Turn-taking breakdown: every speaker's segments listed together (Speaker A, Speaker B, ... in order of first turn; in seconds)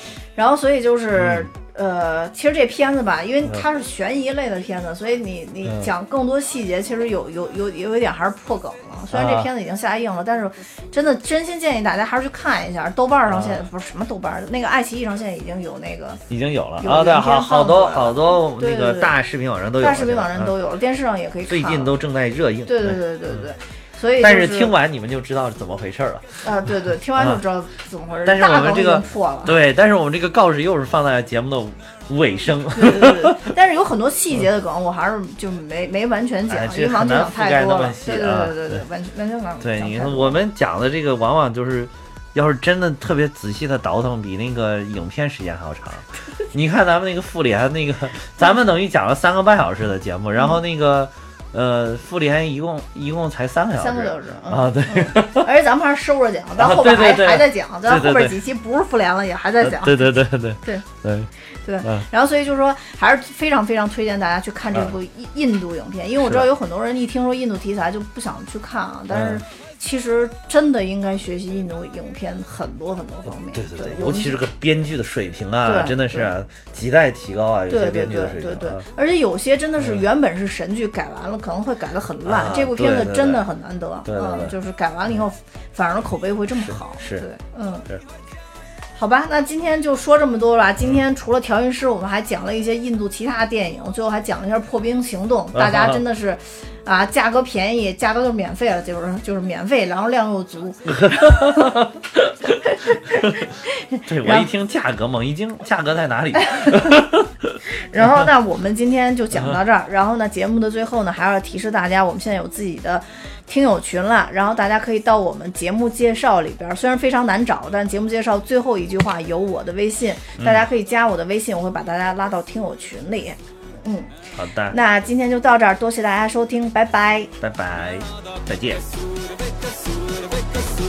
Speaker A: 0.3-16.2, 16.8-19.1, 19.8-22.0, 22.7-24.7, 26.4-29.6, 32.7-40.4, 53.8-60.9, 61.5-74.4, 75.7-76.3, 77.7-87.9, 89.0-101.8, 102.6-104.5, 106.3-107.1, 107.7-124.2, 124.7-127.3
Speaker B: 1.1-1.5, 9.1-9.5, 13.3-13.6, 16.3-20.5, 21.5-23.5, 24.2-27.4, 28.2-33.5, 36.5-38.8, 39.6-55.5, 56.5-58.4, 59.6-61.3, 66.2-66.5, 69.1-69.4, 73.5-78.8, 79.8-80.0, 82.2-83.5, 84.0-84.5, 86.5-87.3, 95.5-96.0, 100.9-103.5, 104.1-107.6, 120.4-120.7, 124.3-124.8, 127.4-128.9